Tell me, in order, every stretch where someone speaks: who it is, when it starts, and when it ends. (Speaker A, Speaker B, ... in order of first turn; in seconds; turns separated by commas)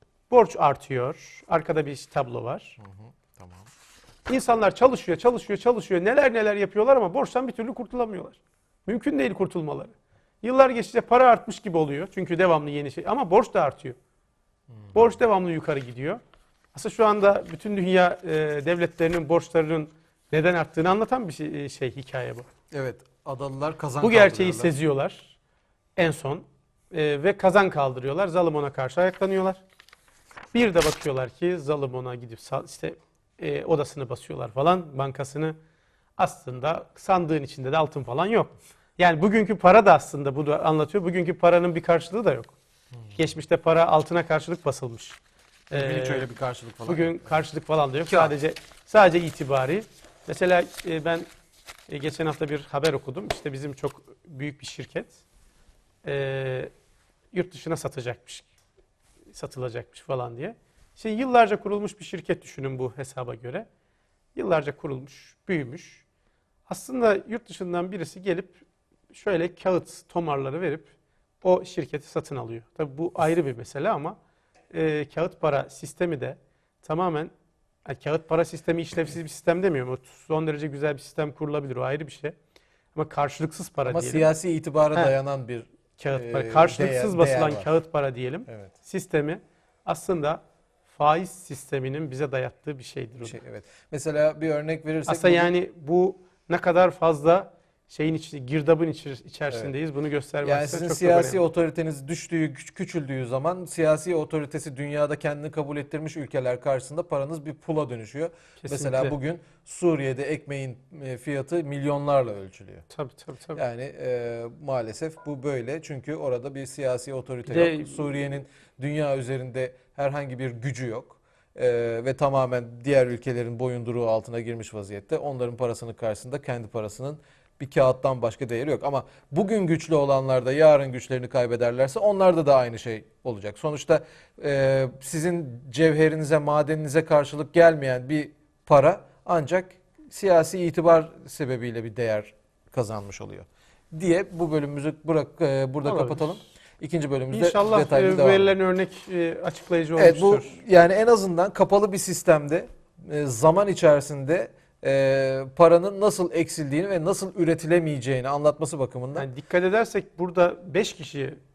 Speaker A: 0.3-2.8, Speaker B: 2.8-3.7, Speaker A: 4.3-14.0, Speaker B: 14.7-15.1, Speaker A: 14.9-16.2, Speaker A: 16.7-22.5, Speaker B: 22.7-24.7, Speaker A: 24.0-25.4, Speaker A: 26.0-29.6, Speaker A: 30.5-35.6, Speaker A: 36.2-42.5, Speaker A: 43.1-45.2, Speaker A: 45.7-46.3, Speaker B: 45.7-47.4, Speaker A: 46.8-51.3, Speaker B: 48.1-48.3, Speaker A: 51.9-55.2, Speaker A: 56.0-56.7, Speaker A: 57.3-58.5, Speaker A: 59.3-63.7, Speaker A: 64.3-66.0, Speaker A: 66.7-68.6, Speaker A: 69.1-74.2, Speaker A: 74.7-77.3, Speaker A: 77.8-82.3, Speaker A: 82.9-84.3, Speaker B: 83.9-87.7, Speaker A: 86.0-93.4, Speaker B: 88.5-88.7, Speaker B: 93.2-95.5, Speaker A: 95.1-101.4, Speaker B: 100.4-112.8, Speaker A: 108.6-109.1, Speaker A: 112.9-113.6, Speaker B: 113.5-148.5, Speaker A: 117.5-118.0, Speaker A: 145.8-146.4, Speaker A: 147.3-150.6, Speaker B: 149.9-159.3, Speaker A: 159.2-161.4